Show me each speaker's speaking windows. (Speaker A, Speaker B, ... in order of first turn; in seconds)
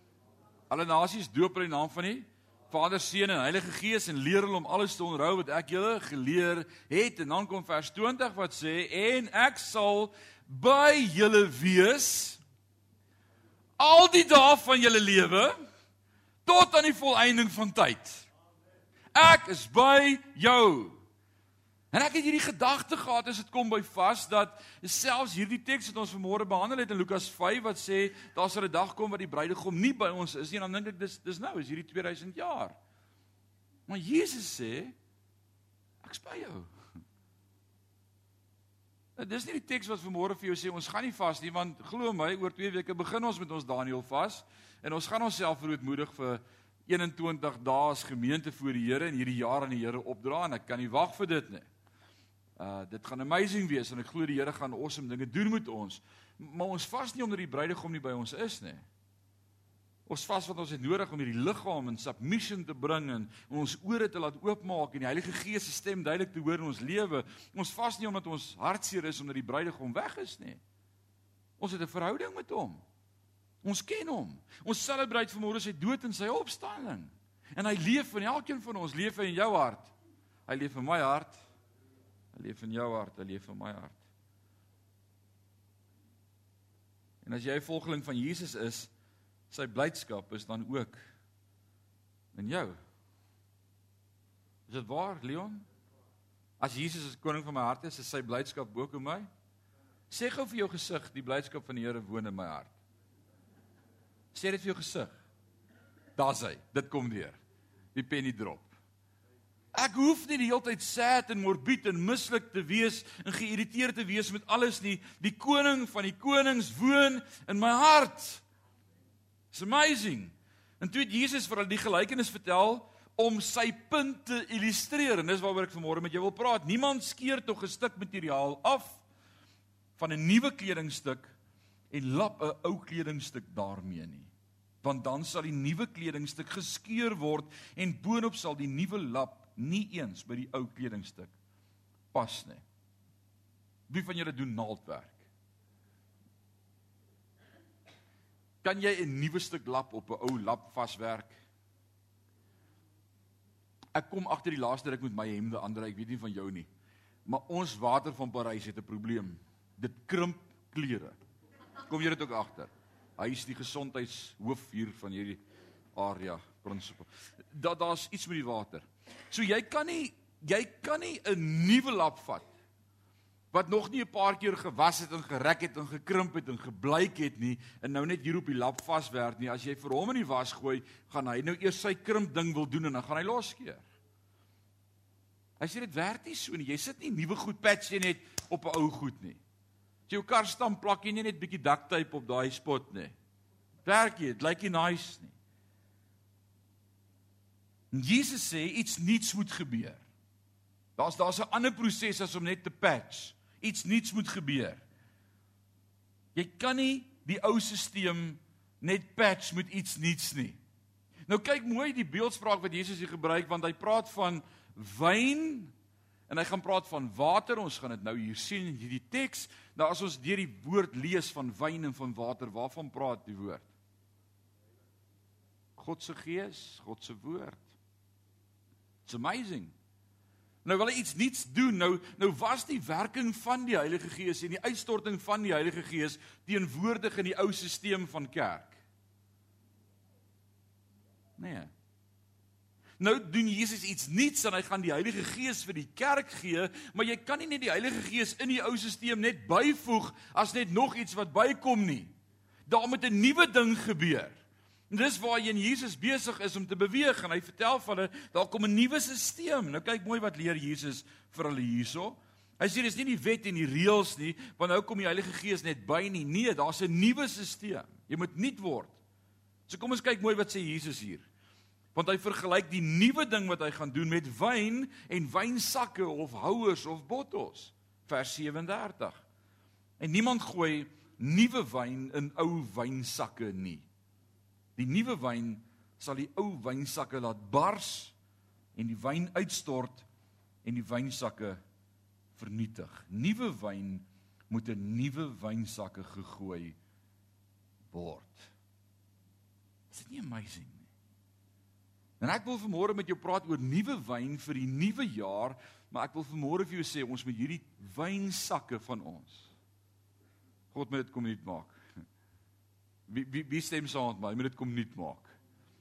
Speaker A: 0.7-12.4, 13.8-15.5, 16.4-18.3, 19.1-21.0, 21.9-32.8, 33.9-34.9, 36.0-36.7, 39.1-51.6, 52.6-58.9, 60.1-70.6, 71.6-72.8, 73.6-79.9, 80.5-81.4, 82.3-84.0, 87.2-88.9, 89.5-91.0, 92.3-92.8, 94.7-95.6, 96.6-99.3, 100.1-102.8, 104.3-105.2, 106.2-107.4, 107.9-108.7, 109.7-118.4, 119.5-129.0, 130.0-131.3, 131.9-134.3, 134.8-141.3, 142.1-142.6, 143.9-145.2, 148.6-151.3, 153.9-156.7, 157.2-161.2, 161.8-165.4, 165.9-172.5, 173.5-183.8, 185.6-189.4, 190.1-193.1, 193.8-195.3, 197.9-200.0, 201.0-204.8, 206.3-210.6, 211.3-215.7, 216.3-223.7, 225.8-227.7, 229.1-229.7, 230.6-238.8, 241.4-241.7, 243.0-252.1, 252.7-254.4, 254.9-269.0, 269.7-271.3, 271.9-279.2, 280.0-283.9, 284.8-288.1, 288.8-290.1, 290.6-291.6, 292.3-296.8, 297.9-298.5, 299.9-300.9, 302.2-309.5, 310.7-311.8, 313.1-315.3